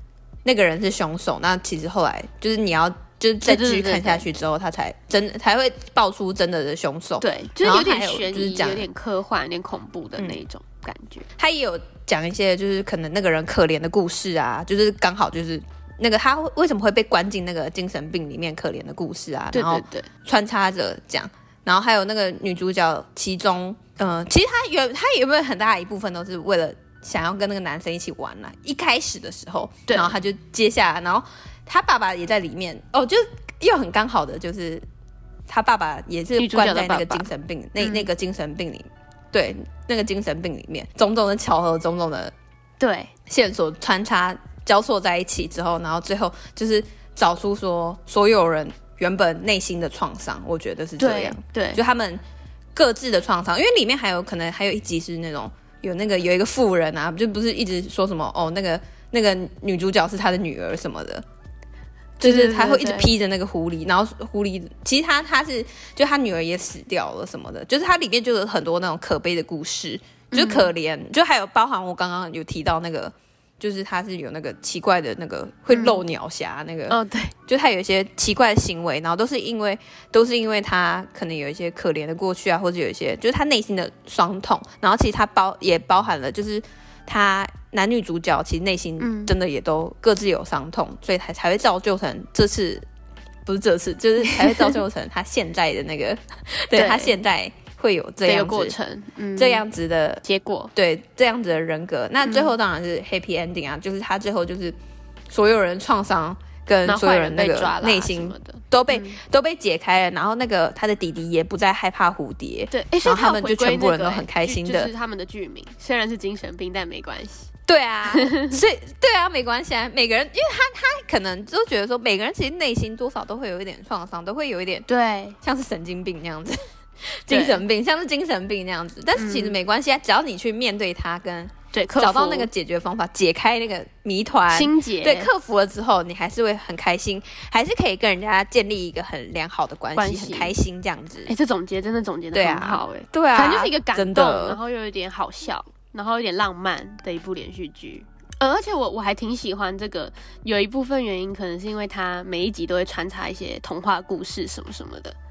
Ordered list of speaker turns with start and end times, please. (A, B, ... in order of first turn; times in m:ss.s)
0:00.4-0:08.9 A
0:03.4-0:04.3 B
0:07.2-0:11.3 B
0:11.4-0:34.8 A
0:19.5-0:20.1 B
0:29.9-0:30.2 B
0:35.5-0:42.3 A
0:36.4-0:37.3 B
0:37.8-0:38.1 B
0:42.8-0:43.1 B
0:43.3-0:52.2 A
0:51.0-0:51.8 B
0:52.8-1:01.2 A
1:02.2-1:03.1 B
1:02.2-1:32.9 A
1:10.3-1:10.7 B
1:15.7-1:16.0 B
1:16.9-1:17.3 B
1:29.0-1:29.3 B
1:33.5-1:38.8 A
1:34.2-1:34.8 B
1:36.7-1:37.2 B
1:38.2-1:39.6 B
1:39.4-1:40.2 A
1:40.2-1:40.7 B
1:40.8-1:44.8 A
1:42.2-1:42.5 B
1:45.3-1:54.9 A
1:46.9-1:49.2 B
1:52.7-1:57.5 B
1:57.7-2:04.9 A
1:58.1-1:58.6 B
2:04.9-2:05.4 B
2:05.4-2:21.3 A
2:07.3-2:07.6 B
2:09.2-2:09.6 B
2:11.7-2:12.5 B
2:14.5-2:15.3 B
2:20.0-2:20.6 B
2:21.3-2:35.2 B
2:22.3-2:24.6 A